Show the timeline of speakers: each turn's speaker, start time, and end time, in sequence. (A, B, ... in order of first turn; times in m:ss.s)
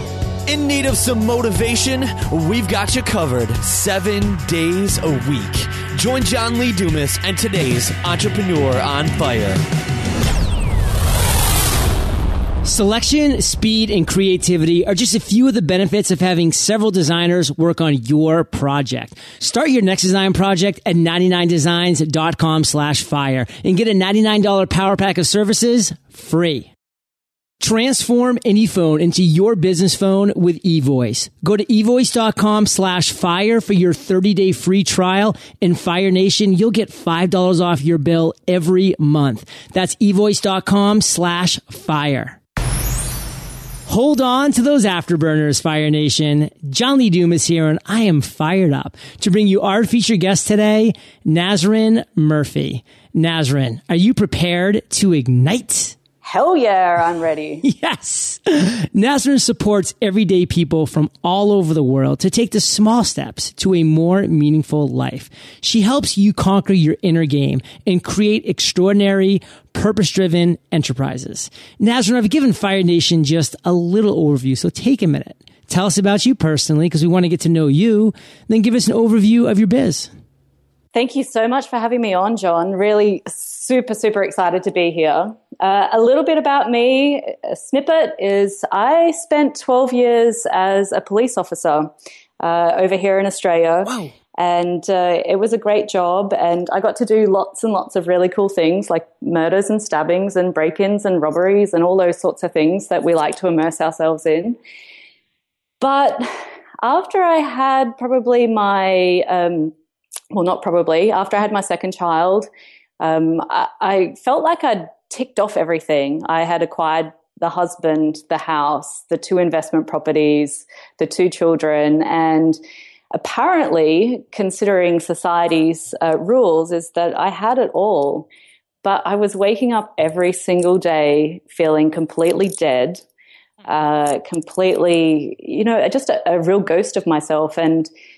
0:00.4-0:09.6 A
0:12.6-0:26.7 B
0:27.6-0:42.4 B
0:43.9-0:56.0 B
0:56.2-0:57.6 C
0:57.6-1:20.1 B
1:20.9-1:44.6 C
1:33.9-1:34.1 B
1:45.8-1:46.3 C
1:46.8-1:49.7 C
1:50.3-1:52.5 C
1:53.0-2:02.6 C
2:03.1-2:08.3 C
2:08.8-2:13.0 C
2:13.6-2:17.9 C